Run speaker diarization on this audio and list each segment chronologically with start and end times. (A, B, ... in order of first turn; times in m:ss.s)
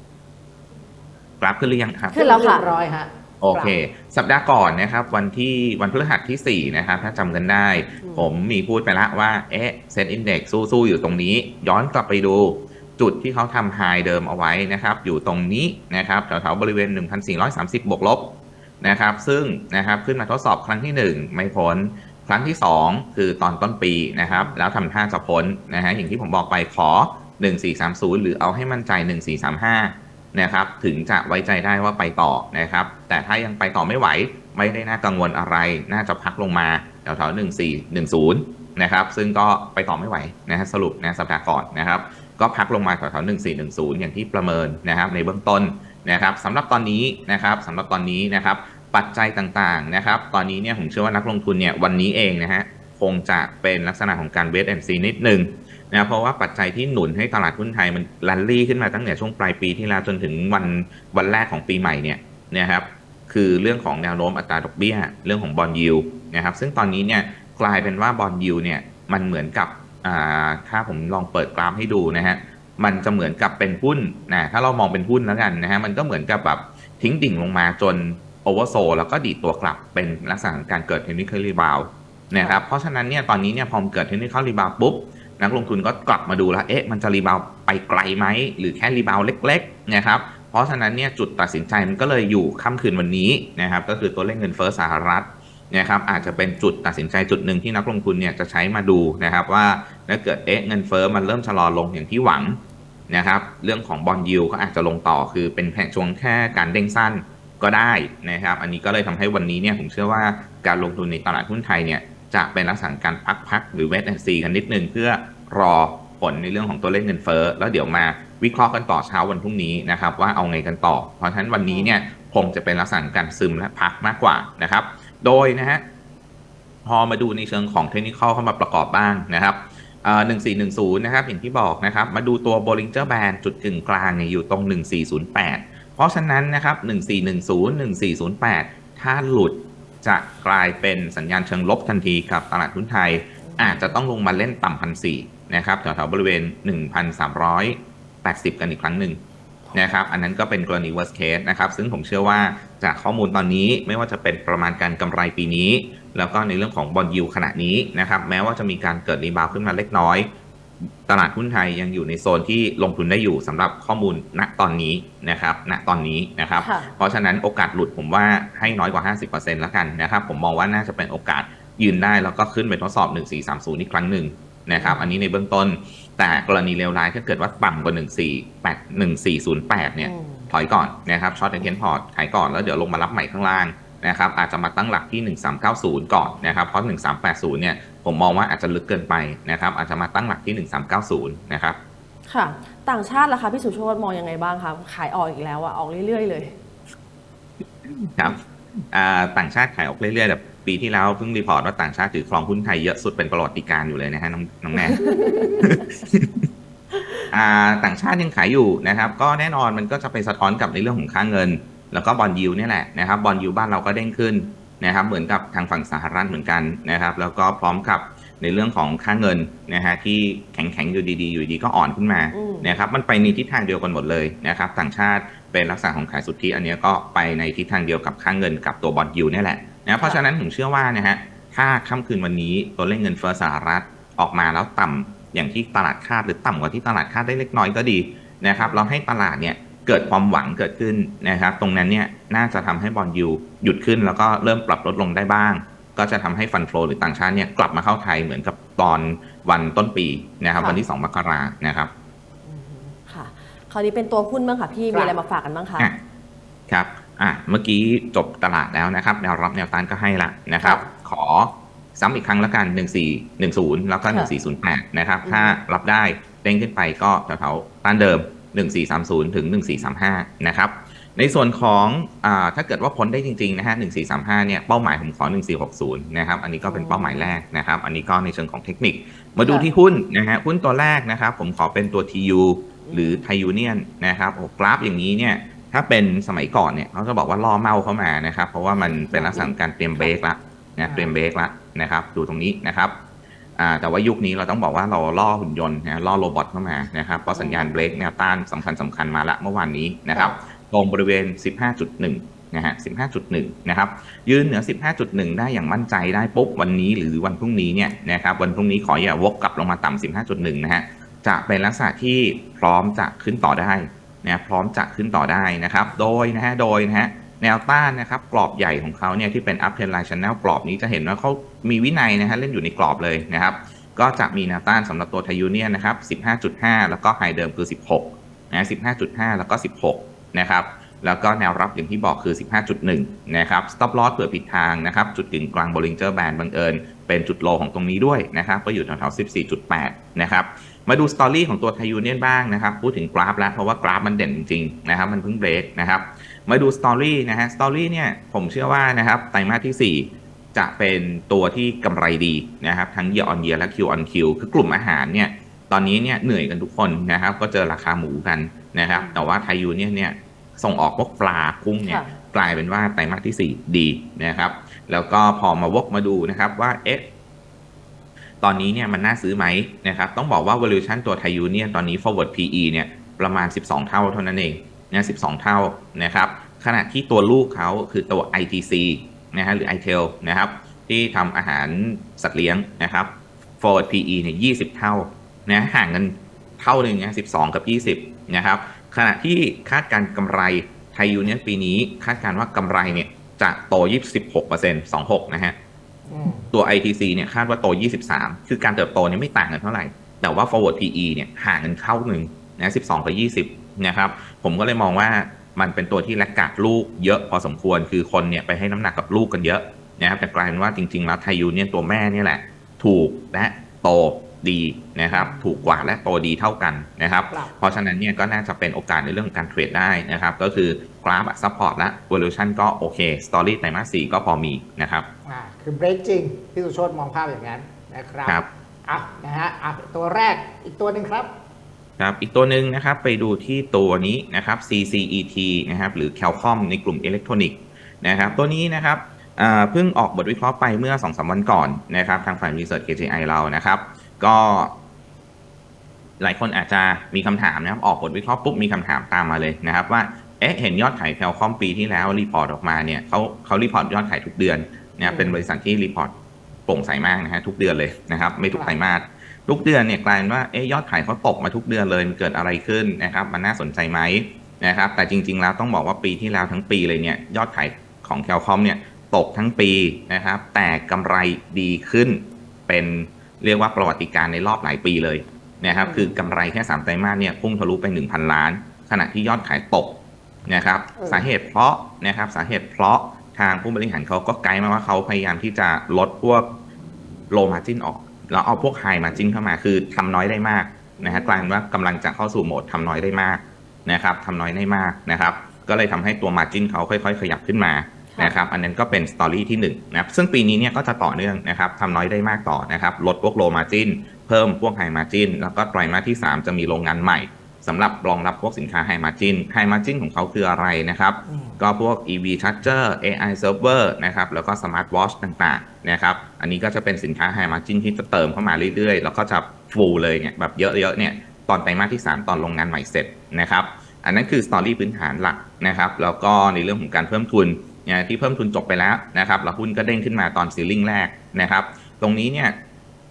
0:01.4-0:02.2 A
0:02.1-0:02.7 B
0:02.1-0:03.8 C
0:03.4-2:05.8 A
0:08.0-0:08.3 B
0:24.3-0:24.5 B
1:22.4-1:22.6 B
1:36.2-1:36.4 B
2:06.8-2:29.2 A
2:23.6-2:23.9 B
2:29.7-2:40.3 A
2:41.1-3:11.8 A
2:46.6-2:46.9 B
2:54.8-2:55.1 B
3:00.0-3:00.5 B
3:12.3-3:16.6 B
3:18.0-3:25.1 A
3:24.8-3:25.7 B
3:25.6-3:26.5 A
3:27.0-3:27.2 B
3:27.3-4:11.9 A
3:42.3-3:42.9 B
4:12.4-4:15.9 B
4:14.9-4:15.2 C
4:16.7-4:53.0 A
4:20.6-4:20.9 B
4:25.2-4:25.6 B
4:36.6-4:37.3 B
4:39.4-4:39.7 B
4:42.8-4:43.3 B
4:48.8-4:50.1 B
4:50.8-4:51.1 C
4:53.6-6:07.1 A
4:57.3-4:57.7 B
5:00.1-5:00.4 C
6:01.8-6:02.2 B
6:08.4-6:35.6 A
6:36.1-6:36.5 C
6:36.5-7:05.1 A
6:55.1-6:55.8 C
7:05.3-7:11.3 C
7:12.0-7:24.8 A
7:26.2-7:36.1 A
7:35.0-7:35.4 C
7:36.7-8:06.5 A
7:55.8-7:56.2 C
8:01.0-8:01.3 C
8:07.3-8:52.6 A
8:11.0-8:11.5 B
8:31.3-8:31.6 C